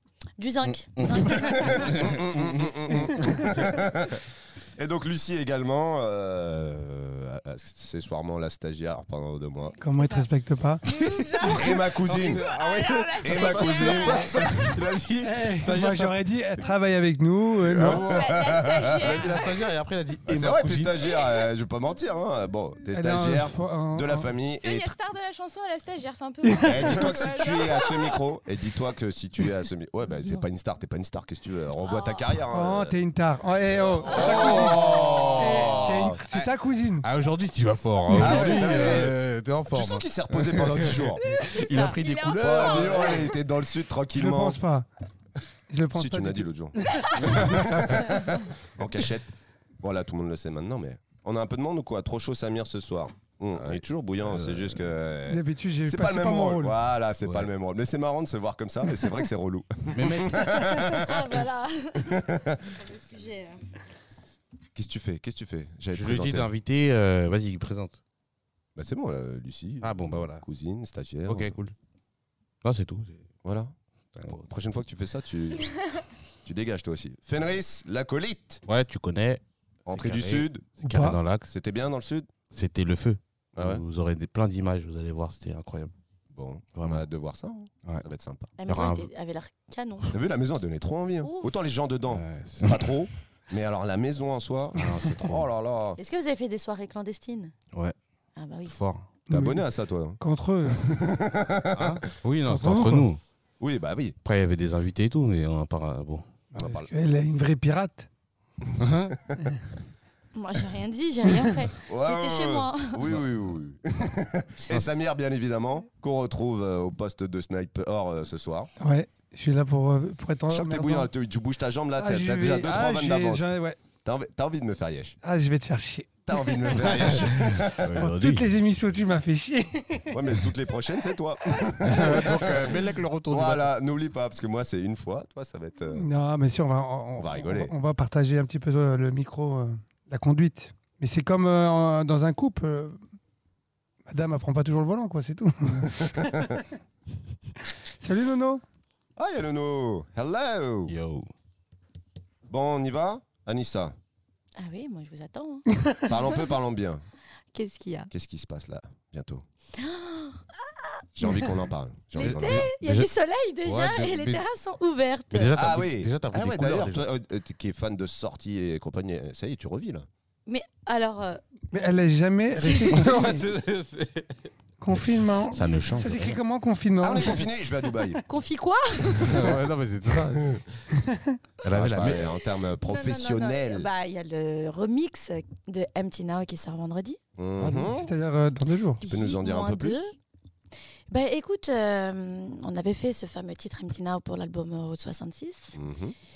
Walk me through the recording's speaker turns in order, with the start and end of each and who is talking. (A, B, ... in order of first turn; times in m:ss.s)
0:00.4-0:02.1 A
0:00.7-0:01.3 B
0:01.3-0:09.8 C
0:01.6-0:01.9 D
0:01.8-0:03.6 B
0:09.8-0:11.0 E
0:10.0-0:10.2 D
0:10.8-0:14.5 D
0:11.4-0:12.5 C
0:12.0-0:16.2 B
0:13.2-0:14.8 C
0:15.2-0:18.2 E
0:17.7-0:21.0 B
0:17.8-0:19.3 C
0:18.0-0:19.5 D
0:20.2-0:24.9 C
0:22.9-0:24.3 E
0:24.6-0:28.1 D
0:26.4-0:27.1 E
0:26.6-0:33.0 C
0:32.5-0:37.0 E
0:34.0-0:43.3 B
0:34.1-0:36.2 C
0:38.1-0:41.2 C
0:41.2-0:43.3 D
0:41.4-0:42.0 A
0:42.4-0:44.6 C
0:44.2-0:44.9 E
0:45.7-0:47.6 E
0:45.9-1:01.4 C
0:47.2-0:48.0 B
0:53.5-0:54.9 B
0:55.3-0:56.7 E
0:57.2-0:57.5 B
0:59.9-1:00.7 B
1:00.8-1:03.6 A
1:02.0-1:02.8 C
1:04.7-1:06.5 C
1:05.9-1:08.0 B
1:08.8-1:11.6 C
1:09.8-1:10.4 B
1:11.3-1:11.7 B
1:12.6-1:13.2 B
1:13.4-1:13.7 C
1:14.1-1:14.5 B
1:14.3-1:15.9 C
1:16.4-1:18.6 C
1:18.7-1:21.5 B
1:19.9-1:20.6 C
1:20.8-1:21.2 E
1:21.5-1:22.3 C
1:22.5-1:25.9 B
1:23.6-1:23.8 C
1:26.3-1:28.5 C
1:26.7-1:27.0 B
1:28.6-1:30.2 A
1:28.7-1:29.1 B
1:30.1-1:36.0 C
1:31.2-1:31.5 A
1:32.1-1:33.0 B
1:34.7-1:35.5 B
1:36.0-1:37.5 A
1:38.4-1:38.8 A
1:38.7-1:39.1 B
1:39.3-1:42.0 C
1:39.3-1:39.6 E
1:40.2-1:41.0 E
1:41.7-1:43.2 B
1:42.4-1:43.1 E
1:43.6-1:44.2 C
1:44.2-1:46.2 B
1:46.5-1:48.1 E
1:46.5-1:46.9 C
1:48.6-1:49.4 C
1:48.8-1:49.2 B
1:50.3-1:53.0 A
1:51.8-1:58.7 C
1:58.8-2:01.1 E
2:00.5-2:03.5 C
2:02.0-2:03.8 E
2:04.0-2:05.2 C
2:05.2-2:10.2 E
2:06.3-2:08.1 C
2:07.3-2:08.5 B
2:10.1-2:16.1 C
2:11.8-2:13.7 B
2:15.9-2:23.0 E
2:17.2-2:17.7 C
2:24.1-2:26.6 E
2:25.8-2:26.6 C
2:28.0-2:28.6 E
2:29.2-2:30.9 C
2:30.9-2:31.3 B
2:32.5-2:34.0 C
2:34.6-2:35.7 A
2:36.0-2:37.0 C
2:37.5-2:38.1 A
2:38.1-2:39.4 C
2:39.7-2:41.5 A
2:41.1-2:42.7 C
2:42.1-2:45.6 A
2:42.2-2:43.1 B
2:43.6-2:44.4 B
2:45.3-2:47.0 B
2:45.5-2:50.1 C
2:50.5-2:51.4 A
2:51.7-2:53.4 E
2:52.6-2:53.0 A
2:52.9-2:54.4 B
2:54.8-2:57.4 E
2:54.9-2:56.4 B
2:57.0-2:58.2 C
2:58.2-2:59.5 A
2:59.2-3:00.8 B
3:01.0-3:01.4 E
3:01.6-3:02.3 B
3:01.7-3:03.9 C
3:02.8-3:07.2 A
3:07.4-3:08.1 C
3:07.6-3:09.0 E
3:09.0-3:10.1 A
3:09.0-3:10.0 C
3:11.1-3:15.8 A
3:15.7-3:16.2 C